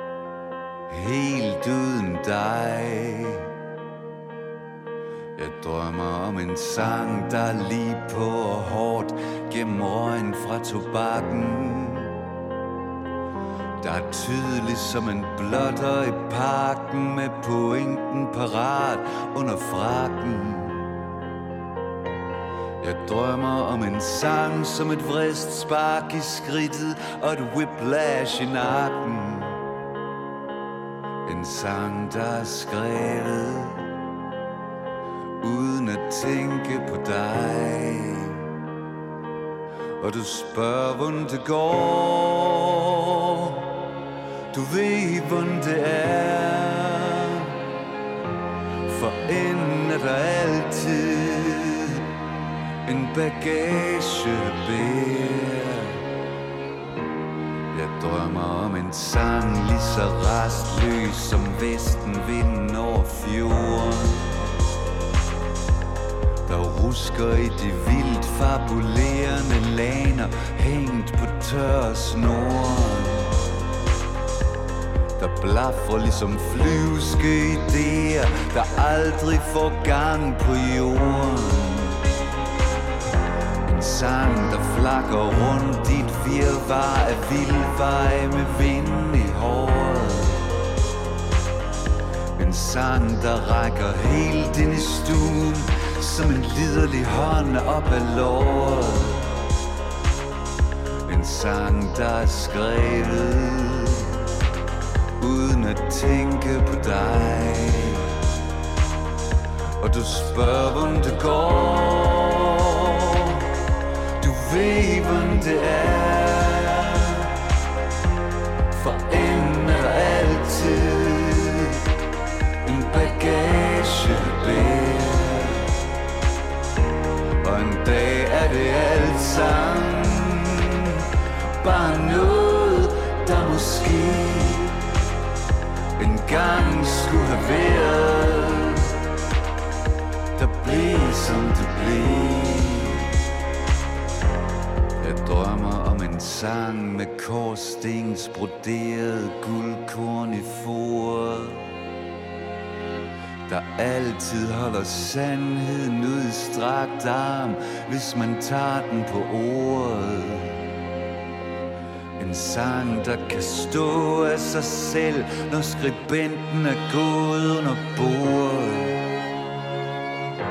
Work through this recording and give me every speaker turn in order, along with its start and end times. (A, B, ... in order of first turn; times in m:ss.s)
0:00.9-0:03.5 A
0:05.4-0:12.2 A
0:13.8-0:20.9 A
0:22.8-0:29.6 A
0:31.2-0:33.9 A
0:35.4-0:38.4 A
0:40.0-0:43.7 A
0:44.5-0:47.5 A
0:48.9-0:52.0 A
0:52.9-0:56.0 A
0:57.7-1:04.4 A
1:06.4-1:13.5 A
1:15.2-1:22.0 A
1:23.7-1:30.5 A
1:32.4-1:39.4 A
1:41.1-1:44.2 A
1:45.2-1:48.2 A
1:49.8-1:53.4 A
1:54.2-1:57.3 A
1:58.7-2:01.8 A
2:02.6-2:05.7 A
2:07.4-2:10.9 A
2:11.6-2:14.8 A
2:16.0-2:18.9 A
2:20.4-2:23.1 A
2:25.0-2:31.7 A
2:33.5-2:40.6 A
2:42.2-2:49.0 A